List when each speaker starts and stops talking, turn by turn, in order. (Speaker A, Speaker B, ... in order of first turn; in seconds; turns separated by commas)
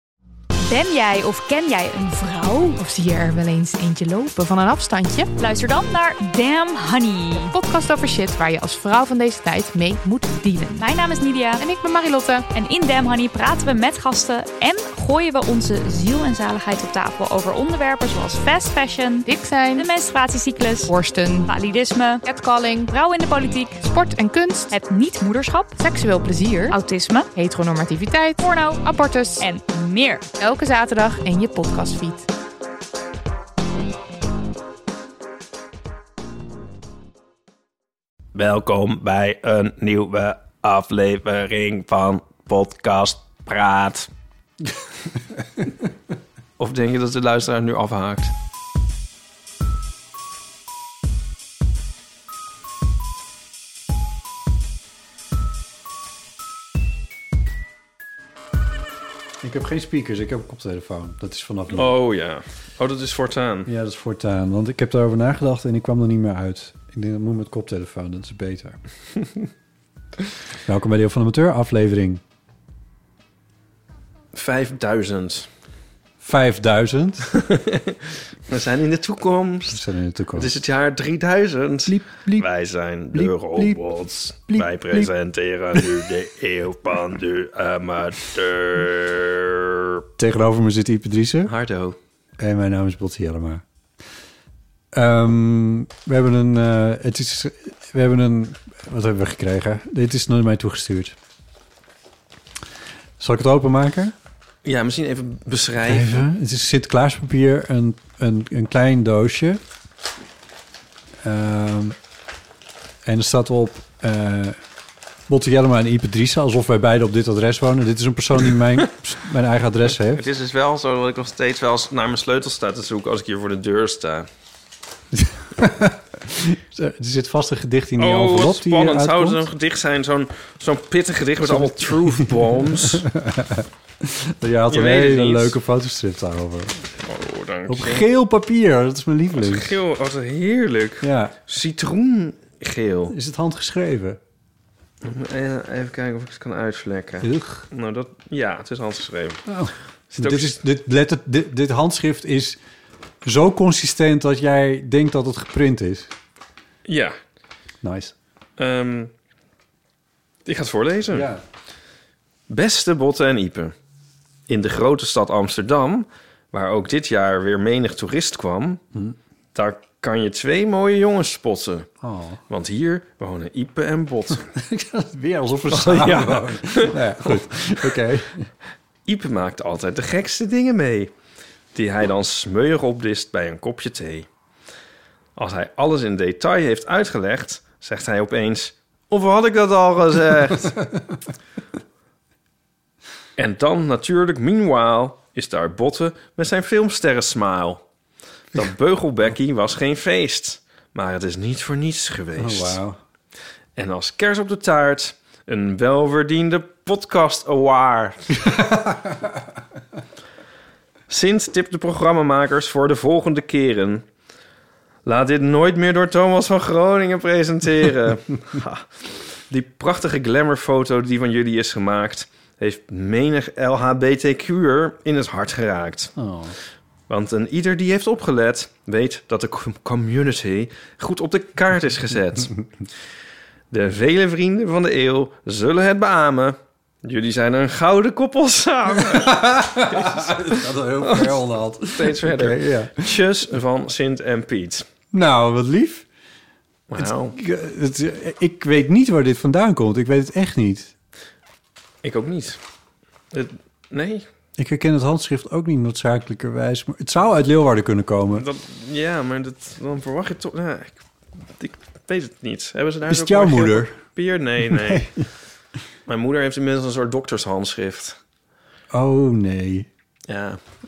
Speaker A: 0.6-2.7, Speaker B: 2.8-5.3, Speaker A: 5.4-7.5, Speaker B: 7.4-10.9, Speaker A: 10.8-11.6, Speaker B: 11.6-12.4, Speaker A: 12.5-22.2, Speaker B: 19.2-19.9, Speaker B: 20.9-21.5, Speaker B: 22.2-22.9, Speaker A: 22.9-23.8, Speaker B: 23.8-24.8, Speaker A: 24.7-25.8, Speaker B: 25.8-26.8, Speaker A: 26.7-27.3, Speaker B: 27.3-29.5, Speaker A: 28.4-30.2, Speaker B: 30.4-32.2, Speaker C: 38.3-44.1, Speaker C: 46.6-48.3, Speaker D: 59.4-62.0, Speaker C: 61.7-63.7, Speaker D: 63.6-68.8, Speaker D: 70.6-72.2, Speaker C: 74.3-75.5, Speaker D: 76.2-77.3, Speaker C: 77.3-79.8, Speaker D: 79.7-80.6, Speaker C: 80.3-90.0, Speaker D: 81.8-82.5, Speaker D: 83.1-83.8, Speaker D: 84.5-85.1, Speaker D: 90.2-91.5, Speaker C: 91.5-92.0, Speaker D: 92.4-93.6, Speaker D: 94.9-101.2, Speaker D: 103.2-104.1, Speaker C: 104.6-106.2, Speaker D: 105.8-109.6, Speaker D: 111.2-112.0, Speaker D: 113.0-114.6, Speaker D: 115.3-120.2, Speaker C: 119.9-124.3, Speaker D: 125.1-129.5, Speaker C: 128.0-133.1, Speaker D: 131.4-136.8, Speaker C: 134.7-135.5, Speaker C: 137.0-138.1, Speaker D: 137.7-139.8, Speaker C: 139.3-143.1, Speaker D: 141.0-141.4, Speaker D: 143.1-144.2, Speaker C: 145.0-149.4, Speaker D: 147.2-147.7, Speaker D: 149.4-152.6, Speaker C: 150.1-150.6, Speaker D: 153.2-156.1, Speaker C: 156.9-157.1, Speaker D: 157.8-158.1, Speaker C: 158.6-159.1, Speaker C: 160.4-161.3, Speaker D: 161.1-161.4, Speaker C: 162.5-163.7, Speaker C: 164.5-168.8, Speaker C: 169.5-171.9, Speaker D: 172.0-172.4, Speaker C: 172.5-174.5, Speaker D: 174.5-178.5, Speaker C: 175.7-177.9, Speaker C: 179.1-181.1, Speaker C: 181.7-184.3, Speaker C: 185.4-190.8, Speaker C: 193.4-197.8, Speaker C: 198.5-202.8, Speaker D: 202.3-203.0, Speaker C: 203.8-208.4, Speaker D: 208.5-209.2, Speaker C: 211.1-214.0, Speaker C: 215.1-226.1, Speaker D: 226.2-226.6, Speaker C: 227.1-232.6, Speaker C: 233.7-244.9, Speaker D: 238.9-243.2, Speaker D: 245.1-246.1, Speaker C: 246.9-247.3, Speaker D: 247.0-250.9, Speaker C: 252.0-252.6, Speaker C: 253.3-254.2, Speaker D: 254.6-258.5, Speaker C: 258.3-261.0, Speaker C: 261.6-265.1, Speaker D: 263.1-264.0, Speaker D: 264.6-265.2, Speaker C: 266.1-268.2, Speaker D: 268.9-269.9, Speaker C: 270.3-270.6